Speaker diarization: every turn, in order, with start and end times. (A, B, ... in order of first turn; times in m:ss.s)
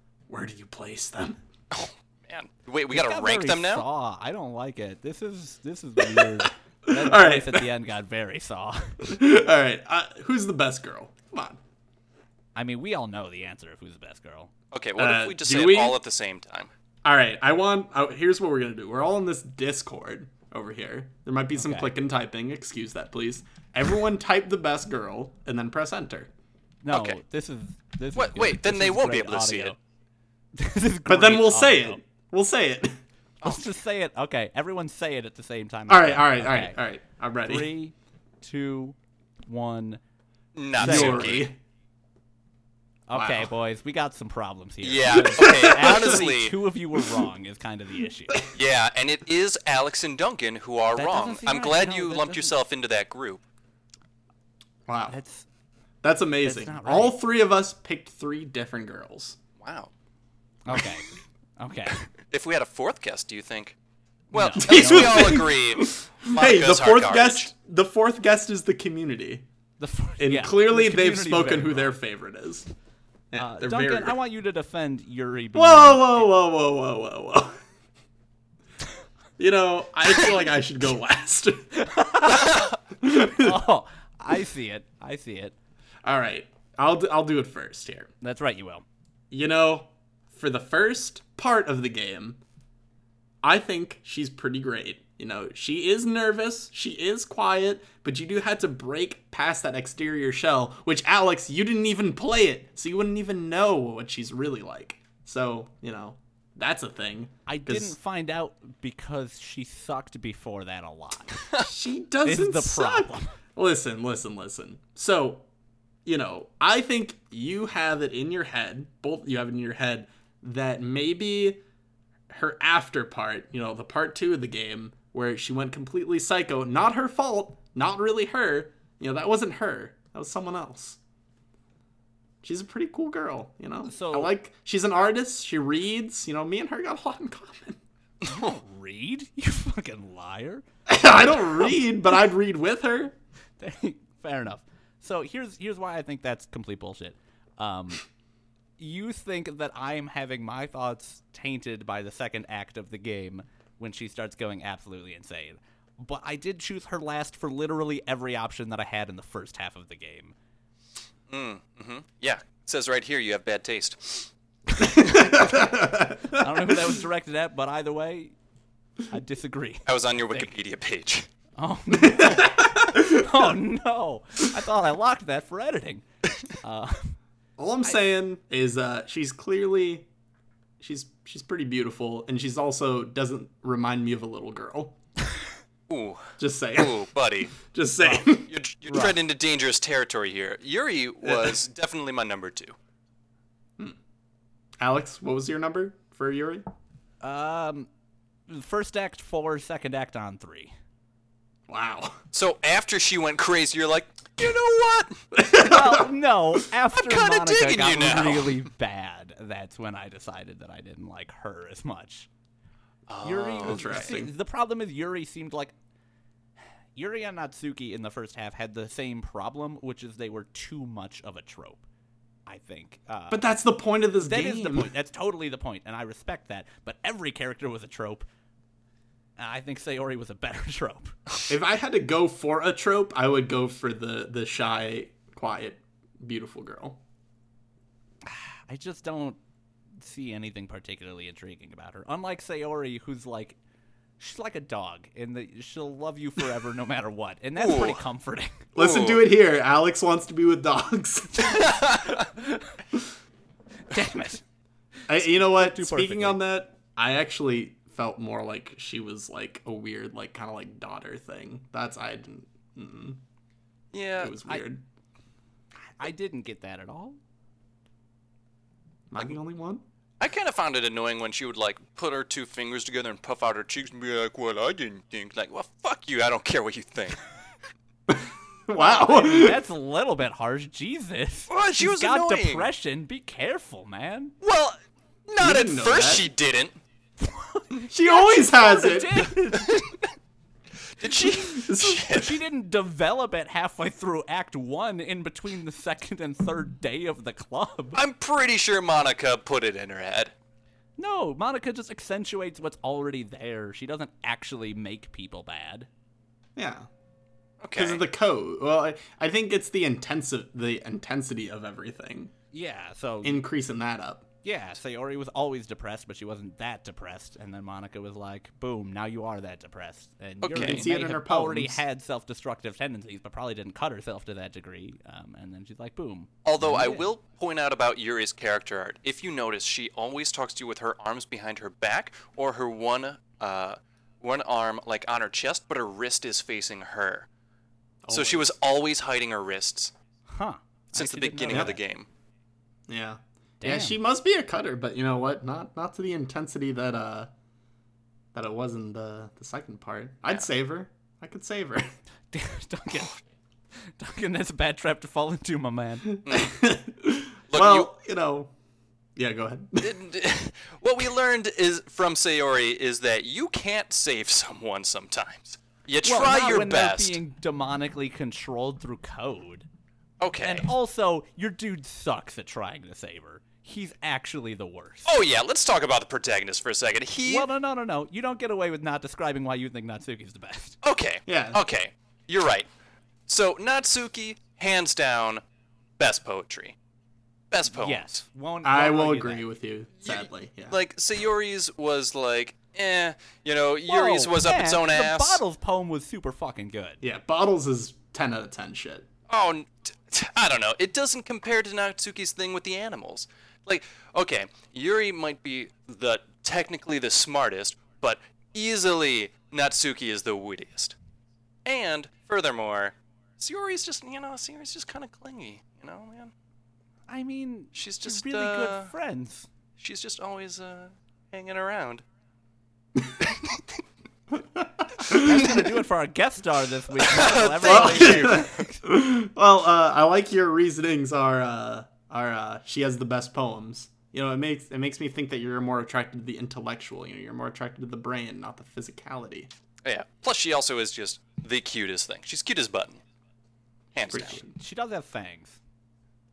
0:00.3-0:01.4 A
0:01.7-0:03.8 B
0:02.9-0:09.2 C
0:06.9-0:07.7 A
0:09.0-0:11.6 A
0:12.6-0:14.5 C
0:14.7-0:16.7 B
0:15.0-0:16.0 A
0:17.0-0:26.3 A
0:21.6-0:21.9 C
0:26.8-0:29.8 C
0:26.9-0:27.2 B
0:28.2-0:29.8 B
0:30.6-0:32.0 C
0:31.1-0:33.0 A
0:33.4-0:36.8 C
0:35.9-0:37.7 A
0:37.5-0:40.0 C
0:40.6-0:41.5 B
0:40.8-0:41.4 C
0:40.8-0:41.6 A
0:43.1-0:48.5 C
0:43.1-0:43.5 A
0:44.8-0:46.6 B
0:45.2-0:46.2 A
0:48.5-0:53.4 B
0:51.0-0:52.5 C
0:54.9-0:55.2 A
0:55.1-0:55.5 C
0:56.0-0:59.4 A
0:56.4-0:57.2 C
0:59.6-0:59.9 B
1:00.7-1:02.1 C
1:02.3-1:03.8 B
1:04.3-1:05.5 C
1:04.3-1:07.5 B
1:04.6-1:09.4 A
1:09.8-1:12.0 C
1:10.2-1:12.7 A
1:13.3-1:14.2 A
1:13.4-1:16.2 C
1:15.6-1:17.6 A
1:19.4-1:21.7 A
1:21.8-1:25.6 C
1:23.0-1:23.6 A
1:26.0-1:28.1 A
1:28.2-1:28.8 C
1:29.3-1:32.4 A
1:33.4-1:48.0 A
1:47.5-1:51.6 C
1:51.6-1:55.4 A
1:52.2-1:53.4 C
1:56.0-2:01.6 A
2:02.3-2:11.0 A
2:12.4-2:17.8 A
2:13.9-2:14.3 C
2:18.3-2:21.7 C
2:20.9-2:23.2 A
2:23.6-2:28.0 C
2:28.8-2:40.4 C
2:41.3-2:44.3 B
2:44.8-2:45.6 C
2:45.0-2:46.7 A
2:46.3-2:48.4 C
2:49.1-2:50.5 C
2:49.9-2:51.3 B
2:51.6-2:57.2 C
2:52.0-2:53.5 A
2:57.6-3:00.1 A
3:00.8-3:05.0 A
3:05.9-3:07.6 B
3:06.4-3:08.5 A
3:08.5-3:12.8 B
3:11.2-3:11.6 A
3:14.8-3:16.6 A
3:17.2-3:17.9 C
3:18.5-3:20.7 C
3:21.7-3:22.2 A
3:22.3-3:25.2 B
3:25.3-3:26.1 A
3:25.5-3:32.3 C
3:26.9-3:28.6 B
3:33.1-3:34.1 B
3:33.2-3:35.7 C
3:33.6-3:34.3 A
3:37.0-3:41.8 C
3:42.5-3:43.4 C
3:43.3-3:44.9 A
3:44.2-3:48.3 C
3:49.4-3:51.2 C
3:51.5-3:57.0 A
3:58.3-3:59.4 C
4:00.0-4:03.6 C
4:04.2-4:08.7 C
4:07.6-4:08.0 B
4:08.8-4:11.8 A
4:08.8-4:09.2 B
4:11.4-4:12.3 B
4:13.9-4:14.4 C
4:15.1-4:23.2 A
4:15.1-4:16.4 C
4:23.9-4:24.4 B
4:24.2-4:24.8 A
4:26.0-4:27.2 C
4:29.1-4:29.8 A
4:30.2-4:37.2 B
4:38.1-4:39.6 A
4:38.8-4:44.4 C
4:41.5-4:42.7 B
4:44.4-4:46.8 B
4:45.4-4:46.3 A
4:47.2-4:49.8 C
4:47.9-4:49.4 A
4:51.0-4:52.3 B
4:51.5-4:52.3 A
4:52.2-4:58.0 C
4:58.0-5:00.3 B
5:01.0-5:05.9 C
5:06.6-5:06.9 A
5:07.6-5:08.0 B
5:07.8-5:12.3 A
5:12.5-5:13.4 C
5:13.2-5:14.3 A
5:14.4-5:27.1 C
5:20.4-5:20.8 B
5:20.5-5:21.8 A
5:26.4-5:37.3 B
5:38.0-5:38.5 A
5:38.1-5:39.9 B
5:40.3-5:41.8 C
5:41.0-5:42.1 B
5:41.5-5:41.8 A
5:42.9-5:47.3 A
5:43.6-5:44.0 C
5:48.3-5:51.9 A
5:52.3-5:53.2 C
5:53.9-5:56.2 C
5:56.1-5:58.5 A
5:57.5-5:57.9 B
5:59.2-6:00.0 A
5:59.8-6:07.2 B
6:06.0-6:09.7 C
6:10.2-6:10.7 B
6:10.4-6:15.1 C
6:15.1-6:17.5 B
6:17.2-6:20.8 C
6:20.8-6:22.7 B
6:21.3-6:21.6 A
6:23.3-6:25.4 B
6:26.0-6:26.8 B
6:27.5-6:28.2 B
6:27.8-6:29.4 C
6:28.6-6:30.8 A
6:30.0-6:35.4 B
6:33.9-6:37.0 C
6:37.0-6:39.1 A
6:39.3-6:51.0 B
6:51.6-6:56.3 B
6:57.1-6:59.5 C
6:57.7-6:58.9 B
6:59.8-7:02.0 B
7:03.2-7:03.6 B
7:04.6-7:05.2 A
7:05.1-7:08.8 C
7:05.2-7:05.7 B
7:07.0-7:08.6 B
7:07.6-7:19.5 A
7:19.8-7:23.0 B
7:24.0-7:24.4 B
7:24.1-7:24.5 A
7:24.4-7:25.6 C